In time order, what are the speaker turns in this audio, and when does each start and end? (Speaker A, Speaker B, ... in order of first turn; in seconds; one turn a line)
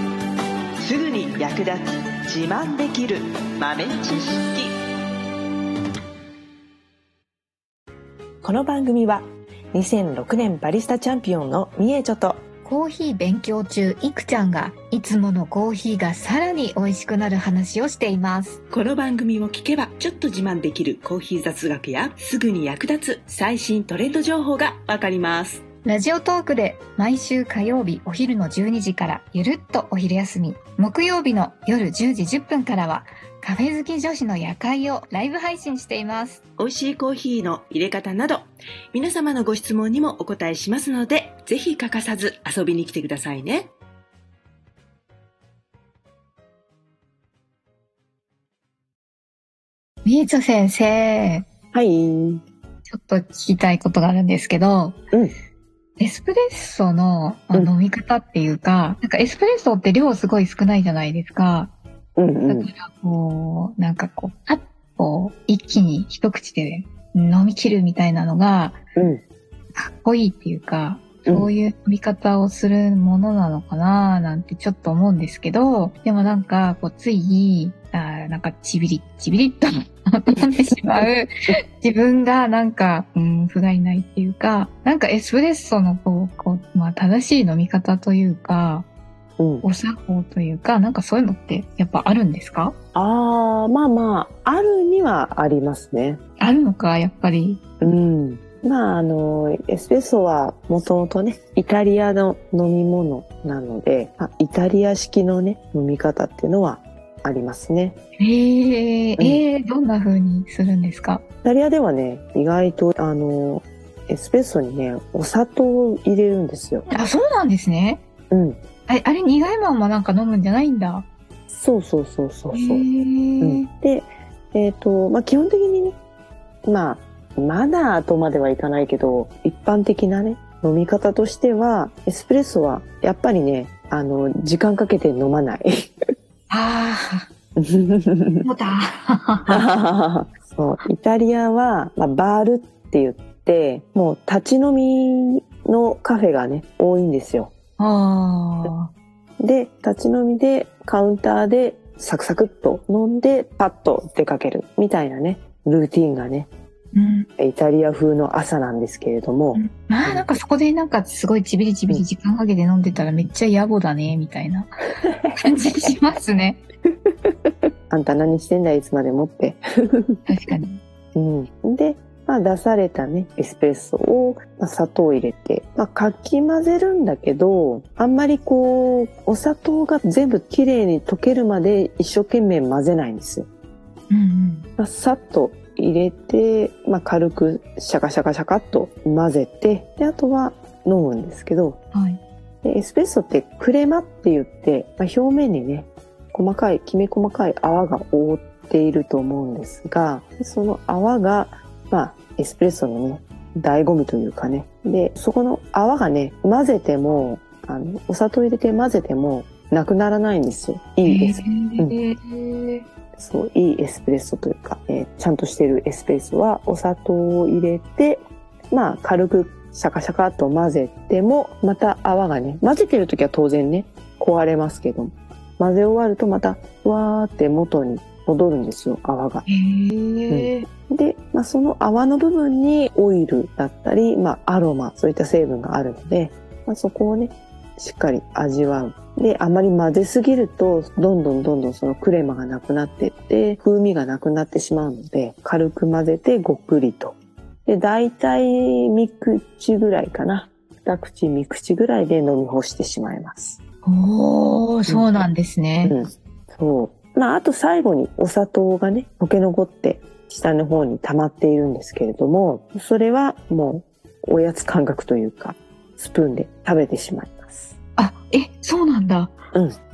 Speaker A: 0.8-4.6
Speaker B: 3.7-4.5
Speaker A: 8.4-9.2
Speaker B: 8.5-9.2
Speaker A: 9.8-12.4
Speaker B: 10.3-11.6
Speaker C: 12.6-18.6
Speaker A: 18.7-25.6
Speaker B: 18.7-25.4
Speaker C: 25.8-36.4
Speaker A: 36.6-38.4
Speaker B: 36.6-38.3
Speaker A: 38.9-43.7
Speaker B: 39.1-42.5
Speaker C: 50.0-51.5
Speaker B: 51.7-52.4
Speaker C: 52.9-55.0
Speaker C: 56.0-61.7
Speaker B: 62.2-62.7
Speaker C: 62.5-68.8
Speaker B: 69.0-69.2
Speaker C: 69.8-88.9
Speaker B: 71.3-71.5
Speaker B: 89.4-89.7
Speaker C: 89.6-92.8
Speaker B: 92.9-96.2
Speaker C: 96.4-97.6
Speaker B: 97.8-108.0
Speaker C: 108.2-111.2
Speaker B: 109.2-109.4
Speaker B: 111.4-116.9
Speaker C: 116.9-118.0
Speaker B: 118.3-118.6
Speaker C: 118.9-121.1
Speaker B: 121.5-122.9
Speaker C: 122.5-123.7
Speaker B: 123.4-126.0
Speaker B: 126.7-135.7
Speaker C: 136.5-137.2
Speaker B: 137.6-138.5
Speaker C: 138.4-139.6
Speaker B: 139.5-147.5
Speaker C: 147.8-148.9
Speaker B: 149.4-156.5
Speaker C: 156.9-157.3
Speaker B: 157.4-160.3
Speaker C: 159.5-164.9
Speaker B: 165.0-165.9
Speaker C: 165.4-166.6
Speaker B: 167.9-170.2
Speaker C: 170.3-170.8
Speaker B: 171.1-183.5
Speaker C: 184.1-184.7
Speaker B: 184.8-191.8
Speaker C: 191.9-192.2
Speaker B: 192.6-212.0
Speaker C: 211.1-212.8
Speaker B: 213.2-229.5
Speaker C: 229.5-230.7
Speaker B: 230.3-253.6
Speaker C: 253.8-256.0
Speaker B: 254.9-255.3
Speaker B: 255.8-267.8
Speaker C: 268.0-269.4